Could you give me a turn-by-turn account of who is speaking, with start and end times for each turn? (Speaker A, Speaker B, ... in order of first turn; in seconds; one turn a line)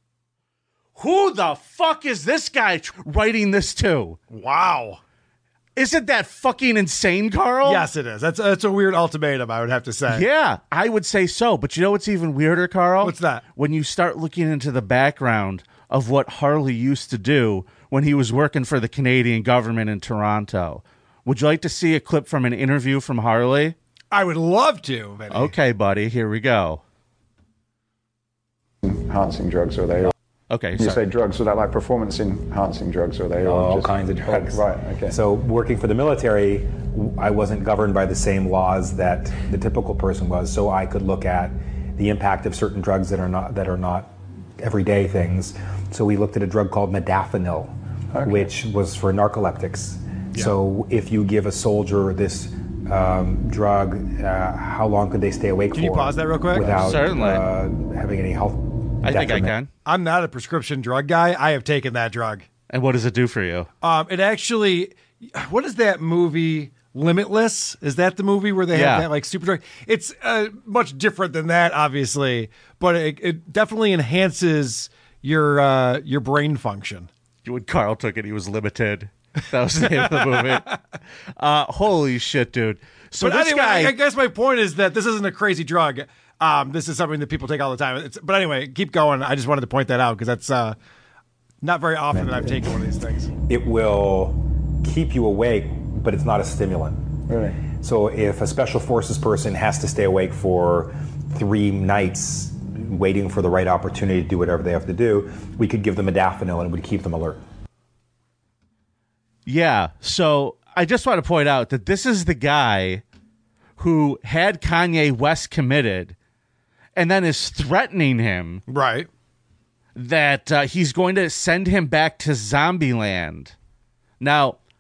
Speaker A: 1.0-4.2
Speaker B: 4.3-5.0
Speaker A: 5.8-7.9
Speaker B: 7.6-10.2
Speaker A: 10.1-23.8
Speaker B: 13.0-13.4
Speaker B: 24.1-25.5
Speaker A: 25.3-26.8
Speaker C: 28.8-30.1
Speaker A: 30.5-31.1
Speaker C: 30.8-35.2
Speaker D: 33.4-59.5
Speaker C: 48.1-48.5
Speaker B: 55.7-56.8
Speaker A: 56.8-57.4
Speaker A: 59.0-59.7
Speaker B: 59.9-62.5
Speaker A: 62.7-63.7
Speaker B: 63.8-77.1
Speaker A: 68.7-69.1
Speaker A: 77.5-80.7
Speaker B: 79.9-80.7
Speaker A: 81.4-84.0
Speaker B: 83.2-90.8
Speaker B: 91.6-93.3
Speaker C: 92.2-92.5
Speaker D: 93.5-107.4
Speaker C: 97.3-97.6
Speaker A: 109.5-113.0
Speaker A: 113.8-116.2
Speaker A: 117.0-118.6
Speaker B: 118.7-119.1
Speaker A: 120.0-123.5
Speaker A: 124.2-124.6